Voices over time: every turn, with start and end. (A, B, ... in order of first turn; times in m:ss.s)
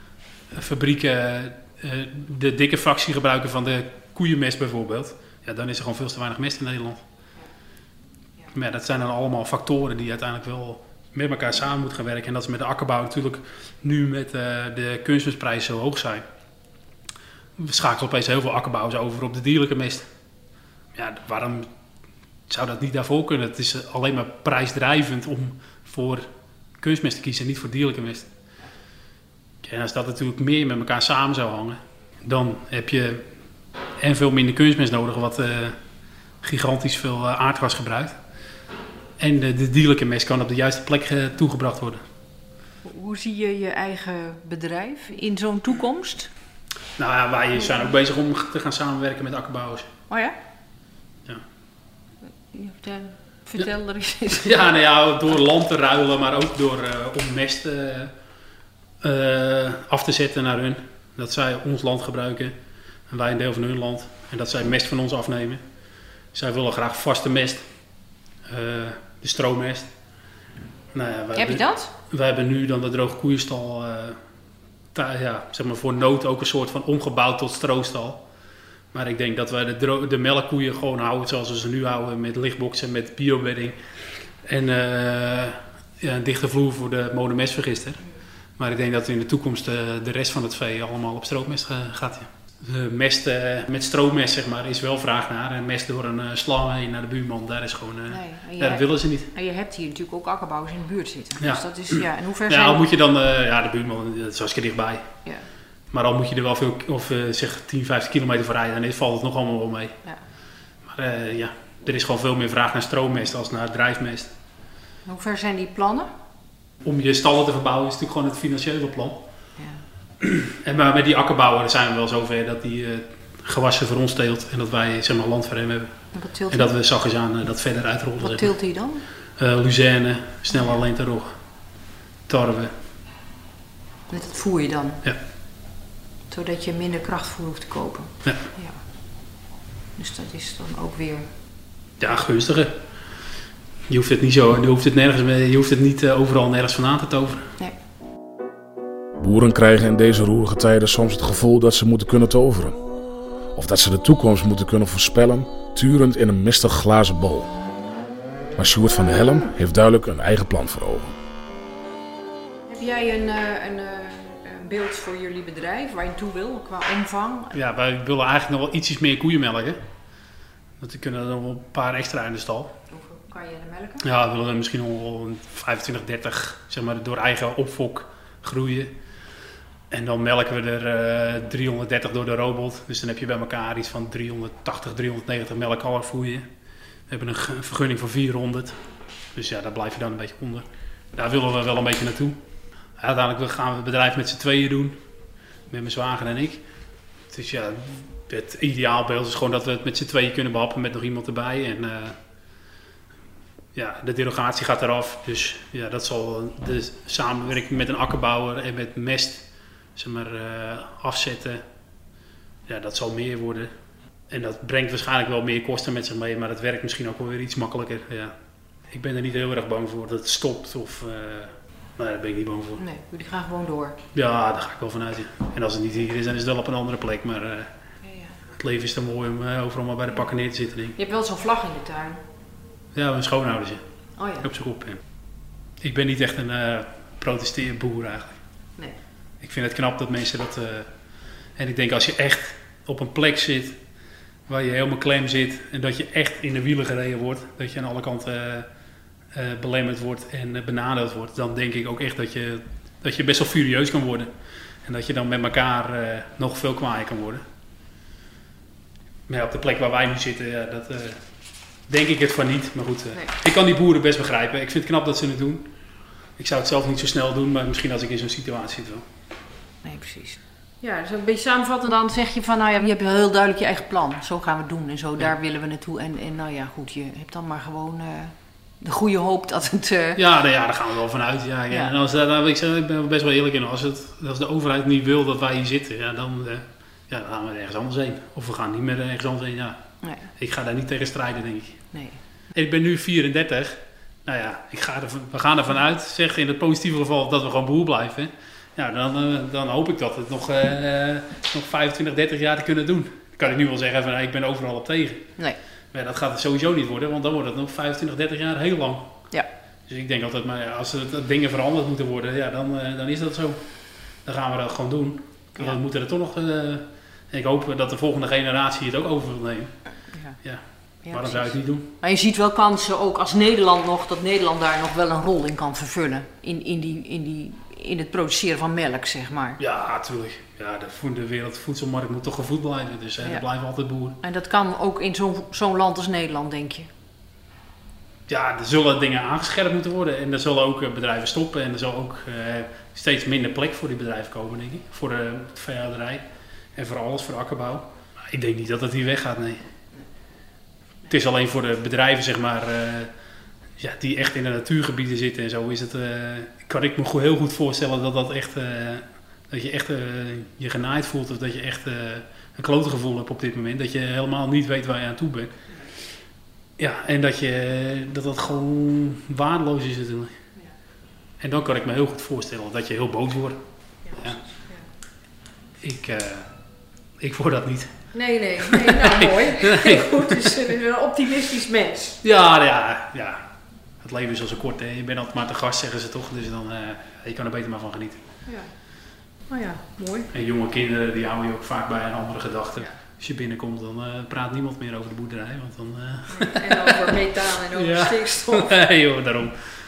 0:00.5-0:07.0 A
0:08.5-0:16.2 A
0:17.6-0:20.1 A
0:20.9-0:21.7 A
0:22.5-0:26.3 A
0:26.8-0:28.3 A
0:29.6-0:33.2 A
0:34.0-0:35.8 A
0:36.4-0:38.1 A
0:39.2-0:42.0 A
0:42.8-0:46.3 B
0:47.0-0:49.9 A
0:47.6-0:47.9 B
0:50.1-0:50.4 B
0:52.5-0:54.7 B
0:54.4-0:58.1 A
0:59.0-1:02.5 A
1:03.1-1:05.6 A
1:06.3-1:07.6 A
1:08.5-1:09.9 A
1:10.9-1:14.2 A
1:11.3-1:11.9 B
1:14.9-1:18.2 A
1:18.9-1:23.8 A
1:24.4-1:28.0 A
1:28.6-1:39.3 A
1:38.1-1:42.8 B
1:41.4-1:45.1 A
1:45.9-1:50.0 A
1:50.8-1:54.3 A
1:55.0-1:56.1 B
1:56.8-1:59.2 A
1:59.6-1:59.8 B
2:00.2-2:05.9 A
2:06.1-2:06.7 B
2:06.5-2:08.6 A
2:08.2-2:09.0 B
2:09.4-2:11.4 A
2:10.5-2:10.8 B
2:12.3-2:12.7 A
2:14.1-2:15.0 B
2:16.3-2:18.8 B
2:20.0-2:21.3 B
2:22.0-2:22.7 A
2:23.9-2:27.4 A
2:29.2-2:32.8 C
2:33.5-2:37.5 C
2:38.6-2:41.1 C
2:42.7-2:47.5 B
2:47.5-2:49.8 A
2:50.8-2:52.7 A
2:52.9-2:54.0 B
2:54.0-2:58.9 A
2:59.9-3:06.4 A
3:07.1-3:08.8 A
3:09.3-3:12.4 A
3:13.0-3:15.0 A
3:15.7-3:16.6 A
3:17.3-3:22.2 A
3:23.7-3:31.6 A
3:32.7-3:33.7 A
3:34.3-3:38.3 A
3:38.9-3:42.8 A
3:42.8-3:44.0 B
3:44.1-3:47.7 A
3:48.0-3:48.4 B
3:48.6-3:51.0 A
3:50.9-3:52.2 B
3:52.9-3:53.8 A
3:54.2-3:54.5 B
3:54.4-3:55.0 A
3:55.8-3:58.4 A
3:59.4-4:00.9 A
4:01.6-4:03.8 A
4:04.5-4:08.7 A
4:09.3-4:14.3 A
4:14.8-4:17.4 A
4:19.3-4:21.2 A
4:21.9-4:25.7 A
4:26.4-4:29.0 A
4:29.8-4:40.2 B
4:40.1-4:49.8 A
4:41.7-4:41.9 B
4:50.0-4:50.3 B
4:50.3-4:51.9 A
4:51.9-4:52.2 B
4:52.5-5:05.3 A
5:05.9-5:09.2 A
5:09.9-5:13.6 A
5:14.2-5:19.8 A
5:20.1-5:20.4 B
5:20.4-5:21.9 A
5:21.0-5:29.6 B
5:29.6-5:34.2 A
5:34.2-5:36.9 B
5:38.3-5:46.2 A
5:46.8-5:49.6 A
5:51.1-5:53.1 A
5:53.8-6:05.5 A
6:06.8-6:10.3 A
6:11.4-6:14.4 A
6:14.1-6:14.8 B
6:15.8-6:16.5 A
6:17.2-6:17.9 A
6:18.1-6:22.2 B
6:18.6-6:20.3 A
6:22.2-6:23.4 A
6:24.0-6:28.2 A
6:29.5-6:30.3 B
6:30.3-6:36.9 A
6:36.3-6:38.7 B
6:37.7-6:39.6 A